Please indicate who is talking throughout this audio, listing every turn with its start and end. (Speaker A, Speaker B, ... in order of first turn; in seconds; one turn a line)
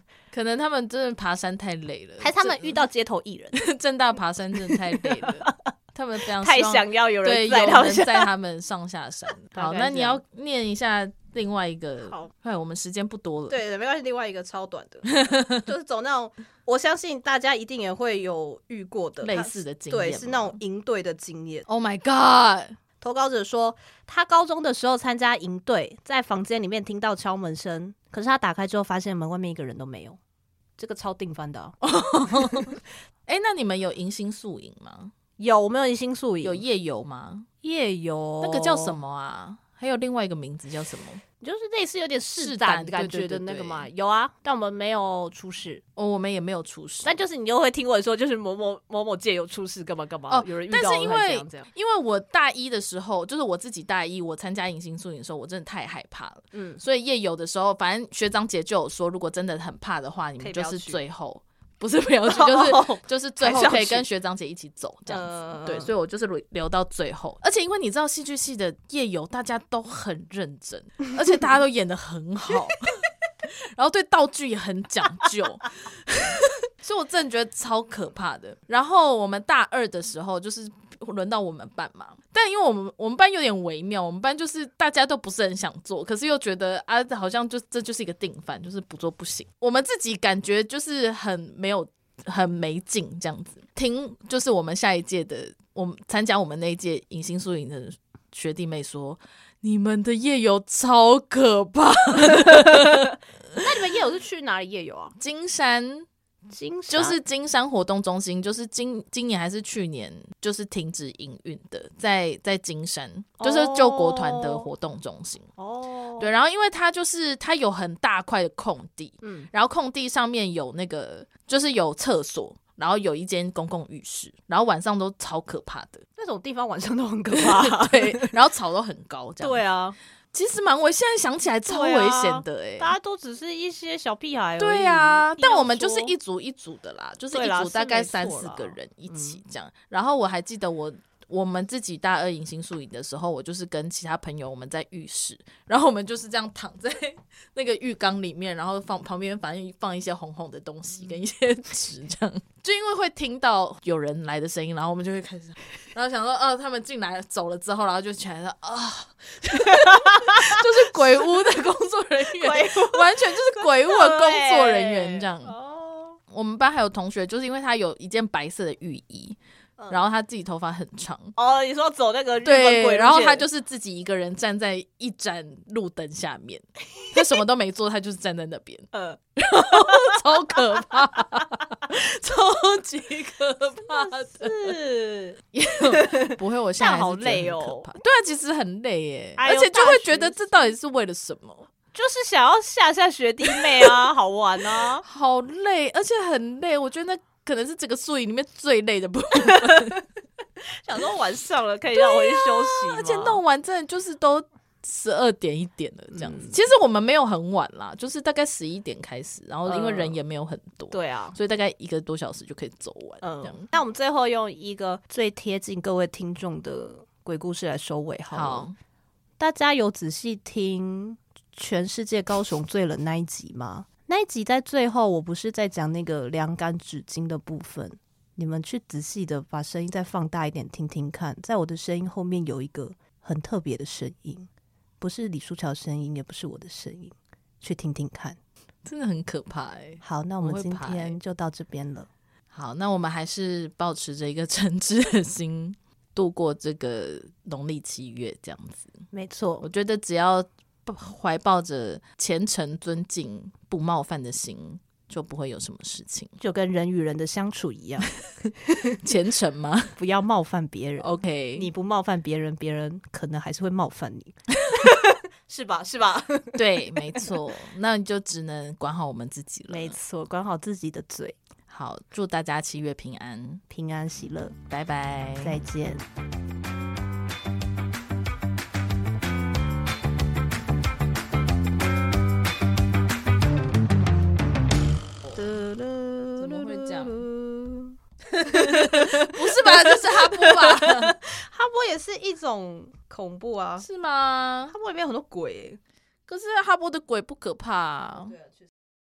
Speaker A: 0.3-2.8
Speaker B: 2.2-3.6
Speaker A: 3.5-13.6
Speaker B: 4.7-5.6
Speaker B: 6.4-8.3
Speaker B: 9.5-10.2
Speaker B: 13.5-21.7
Speaker A: 15.1-15.7
Speaker A: 19.2-20.6
Speaker A: 21.7-22.8
Speaker B: 23.0-30.2
Speaker B: 30.8-31.8
Speaker A: 31.8-32.7
Speaker B: 32.4-32.7
Speaker A: 33.3-35.1
Speaker B: 35.4-36.6
Speaker A: 36.4-37.5
Speaker B: 37.6-39.0
Speaker A: 38.4-41.2
Speaker B: 41.4-45.8
Speaker A: 42.4-43.9
Speaker A: 46.0-47.2
Speaker B: 47.0-51.7
Speaker A: 50.3-103.6
Speaker B: 56.5-56.8
Speaker B: 60.4-61.0
Speaker B: 62.3-64.0
Speaker B: 65.1-65.9
Speaker B: 102.4-103.0
Speaker B: 103.6-105.1
Speaker A: 105.2-106.1
Speaker B: 106.5-107.2
Speaker A: 106.9-115.5
Speaker B: 113.4-114.7
Speaker B: 115.6-116.3
Speaker A: 116.2-126.0
Speaker B: 119.2-119.5
Speaker B: 126.2-128.3
Speaker A: 127.3-129.6
Speaker B: 129.4-130.0
Speaker A: 130.3-132.9
Speaker B: 131.7-136.2
Speaker A: 134.6-165.5
Speaker B: 137.3-139.4
Speaker B: 159.6-161.3
Speaker B: 162.3-166.2
Speaker A: 166.3-169.4
Speaker A: 169.9-171.3
Speaker B: 171.3-173.4
Speaker A: 172.4-184.8
Speaker B: 178.9-180.9
Speaker B: 183.8-187.9
Speaker A: 185.5-191.7
Speaker B: 189.4-190.5
Speaker B: 191.9-195.0
Speaker A: 193.5-194.0
Speaker A: 194.8-200.0
Speaker B: 199.5-199.9
Speaker B: 200.7-203.4
Speaker A: 201.9-213.7
Speaker B: 206.1-206.6
Speaker B: 209.7-210.2
Speaker B: 210.9-211.4
Speaker B: 213.2-218.7
Speaker A: 218.3-218.7
Speaker B: 219.4-234.5
Speaker B: 235.0-238.4
Speaker A: 238.8-241.2
Speaker B: 240.0-242.1
Speaker A: 242.5-249.0
Speaker B: 249.1-249.7
Speaker A: 249.6-256.4
Speaker B: 256.4-259.0
Speaker A: 258.9-259.9
Speaker B: 260.0-267.3
Speaker A: 261.0-261.7
Speaker A: 266.5-269.9
Speaker B: 269.7-271.4
Speaker A: 271.7-273.6
Speaker B: 273.7-274.6
Speaker A: 274.7-275.6
Speaker B: 275.4-276.0
Speaker B: 285.3-293.9
Speaker A: 286.4-287.2
Speaker A: 288.3-291.2
Speaker A: 293.8-294.7
Speaker B: 294.7-295.8
Speaker A: 296.3-298.3